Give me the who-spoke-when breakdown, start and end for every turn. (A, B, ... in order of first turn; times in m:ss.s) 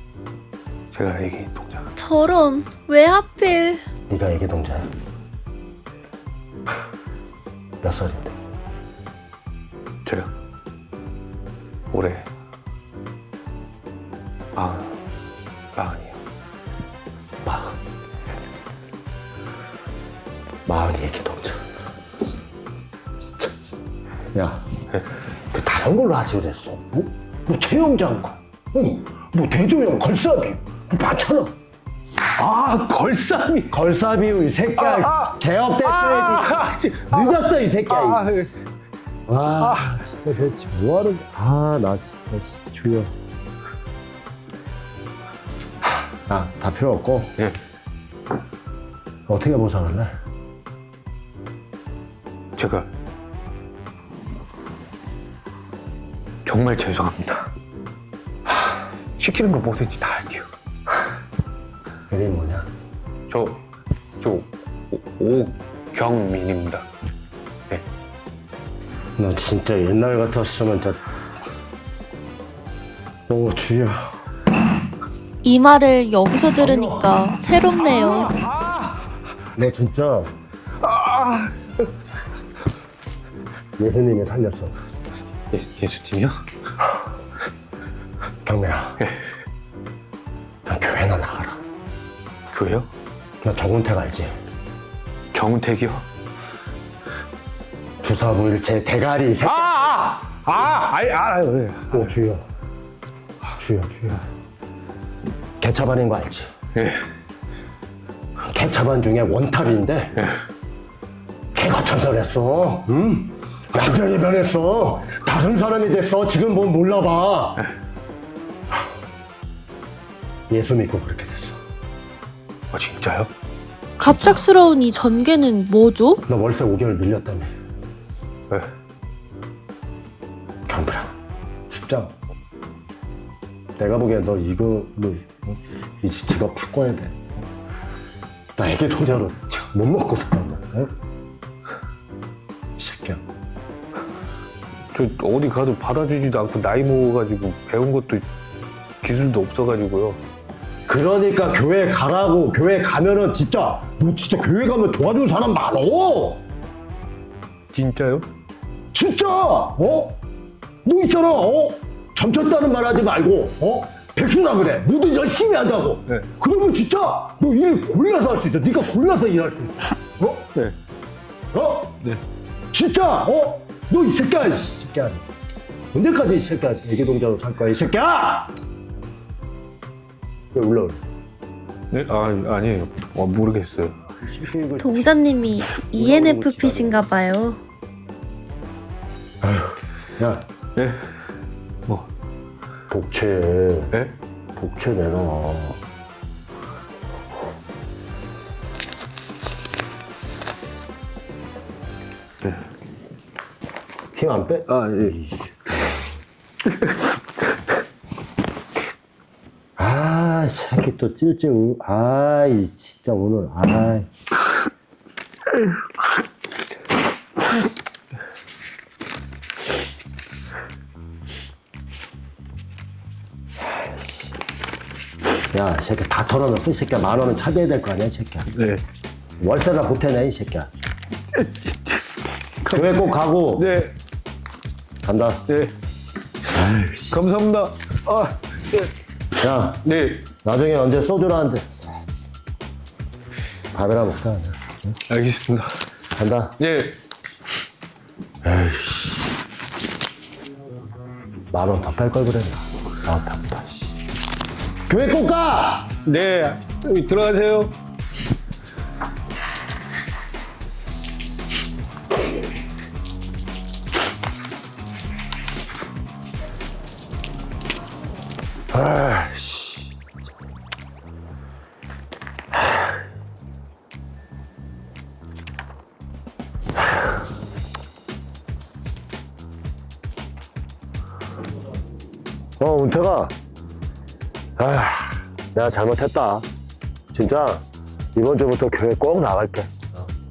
0:00.9-0:01.9 A
0:02.0-0:03.8 B
0:04.1-0:04.9 C
0:07.8-0:08.3 C
0:10.0-0:10.3 A
0:11.9-0:12.3 A
0:14.5-0:14.9 A
0:15.7-0:16.2 A
0:17.4-0:17.8 C
0:20.6-0:21.6 C
0:24.3-0:24.7 C
0:25.5-0:31.5 C
0:32.3-0:33.7 A
0:33.7-0:38.5 C
0:34.8-0:38.5 A
0:39.3-0:43.1 C
0:39.6-0:40.0 A
0:45.8-0:47.4 C
0:49.3-0:50.1 C
0:52.6-0:52.9 A
0:56.4-0:57.5 A
0:59.2-1:00.5 A
1:02.1-1:02.7 C
1:03.3-1:03.6 A
1:04.2-1:06.9 A
1:09.2-1:11.0 C
1:13.3-1:14.2 C
1:15.4-1:18.3 B
1:16.6-1:17.1 C
1:17.8-1:19.0 A
1:19.5-1:20.3 C
1:20.8-1:21.9 A
1:23.8-1:24.7 C
1:25.5-1:26.4 A
1:28.4-1:29.0 C
1:30.6-1:31.6 C
1:32.5-1:32.9 A
1:33.4-1:34.3 C
1:35.3-1:36.0 A
1:38.0-1:39.7 C
1:39.4-1:42.1 A
1:41.9-1:42.4 C
1:43.6-1:44.2 C
1:45.6-1:46.5 C
1:46.7-1:47.0 A
1:48.5-1:50.2 C
1:51.5-1:57.6 C
2:00.5-2:01.6 C
2:02.7-2:03.3 A
2:04.0-2:06.2 B
2:04.0-2:04.4 C
2:06.2-2:07.5 C
2:10.7-2:11.1 C
2:11.7-2:12.1 C
2:13.8-2:17.2 C
2:18.6-2:20.9 C
2:22.8-2:23.2 C
2:24.9-2:28.3 A
2:29.0-2:30.2 A
2:30.9-2:36.4 C
2:37.7-2:38.3 A
2:38.9-2:40.2 C
2:40.8-2:50.5 C
2:51.5-2:52.0 C
2:52.7-2:55.2 C
2:55.9-2:58.5 C
3:00.5-3:01.0 C
3:01.9-3:04.0 A
3:04.2-3:05.2 C
3:04.8-3:07.6 B
3:05.9-3:07.0 C
3:09.4-3:10.4 C
3:10.8-3:11.0 A
3:12.9-3:14.0 C
3:14.6-3:15.8 C
3:24.1-3:26.1 C
3:24.7-3:25.1 A
3:29.8-3:34.1 C
3:45.5-3:48.5 C
3:48.5-3:48.8 A
3:49.4-3:50.7 C
3:51.4-3:51.7 A
3:52.6-3:53.0 A
3:52.7-3:53.7 C
3:53.6-3:53.9 A
3:55.0-3:55.4 C
3:55.5-3:55.7 A
3:56.5-3:57.2 C
3:57.1-3:58.9 A
3:59.4-3:59.8 C
3:59.8-4:00.3 A
4:00.4-4:01.6 C
4:03.7-4:05.0 C
4:05.1-4:05.8 A
4:06.2-4:06.6 C
4:06.6-4:07.0 A
4:08.4-4:09.3 C
4:11.5-4:13.9 C
4:14.9-4:15.9 C
4:16.0-4:17.7 A
4:28.7-4:29.9 C
4:42.6-4:43.3 C
4:44.6-4:46.4 C
4:47.1-4:47.6 C
4:48.1-4:50.0 C